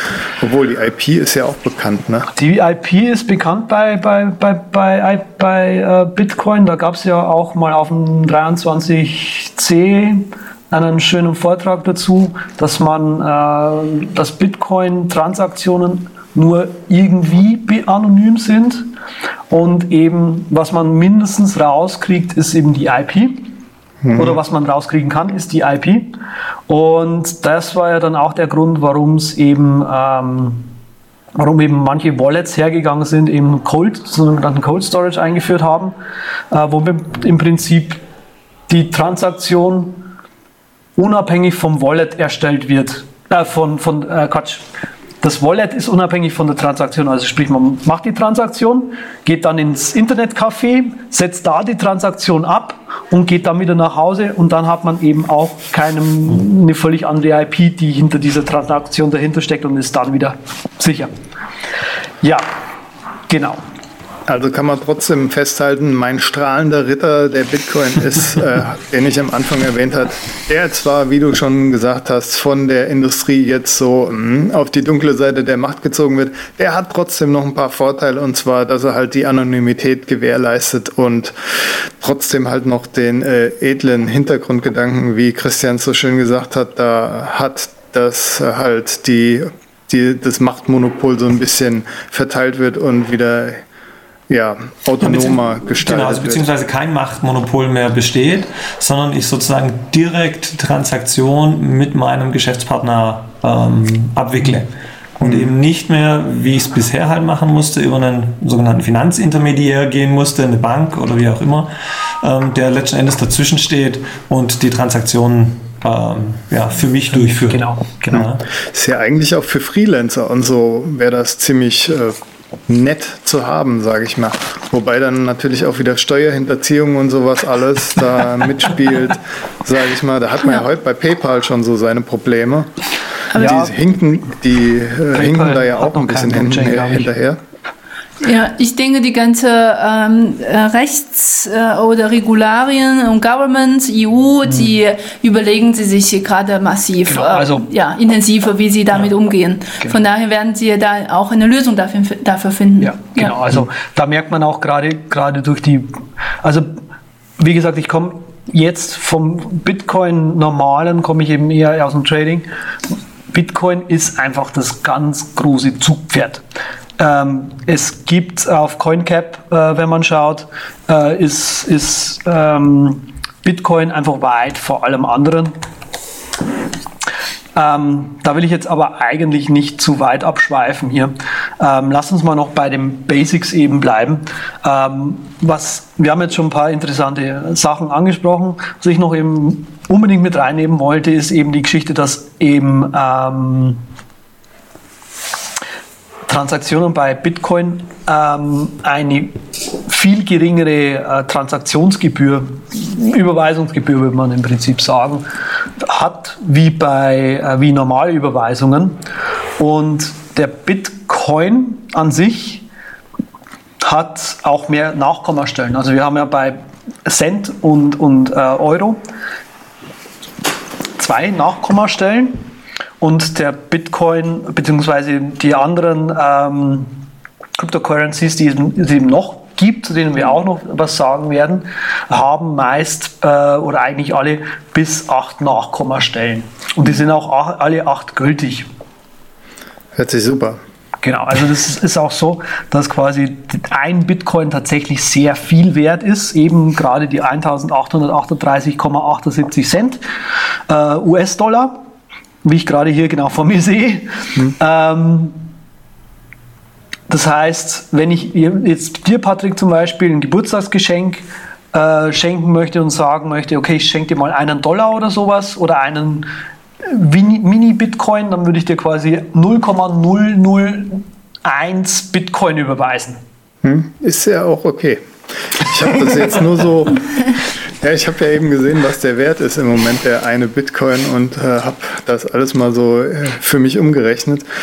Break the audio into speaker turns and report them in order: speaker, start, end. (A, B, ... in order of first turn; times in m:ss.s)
0:00.4-0:02.3 A
0:02.4-0:18.9 B
0:19.5-0:23.5 B
0:24.0-0:24.4 A
0:24.2-0:26.1 B
0:26.7-0:30.7 B
0:31.4-0:35.9 B
0:36.5-0:38.0 B
0:38.7-0:40.0 B
0:41.0-0:44.6 B
0:45.2-1:01.1 B
1:02.2-1:02.5 B
1:03.3-1:03.6 B
1:04.3-1:33.6 A
1:34.3-1:36.5 A
1:35.0-1:58.4 C
1:45.2-1:45.5 A
1:57.1-1:58.2 B
1:58.1-2:02.2 A
2:02.7-2:12.7 A
2:13.3-2:17.4 A
2:13.4-2:13.7 B
2:15.1-2:17.1 B
2:18.2-2:33.4 D
2:27.1-2:27.7 B
2:32.8-2:36.8 B
2:37.4-2:42.5 B
2:43.3-2:46.4 B
2:47.0-2:55.5 B
2:57.5-3:13.8 B
3:16.3-3:25.2 B
3:25.8-3:29.0 B
3:29.6-3:32.6 B
3:33.8-3:39.0 B
3:41.0-3:42.4 B
3:43.0-3:46.9 B
3:47.6-3:58.7 B
4:00.0-4:00.6 A
4:01.0-4:10.0 B
4:10.7-4:11.8 B
4:12.4-4:15.4 B
4:17.1-4:26.3 B
4:26.8-4:33.2 B
4:33.6-4:37.2 A
4:37.8-4:44.4 A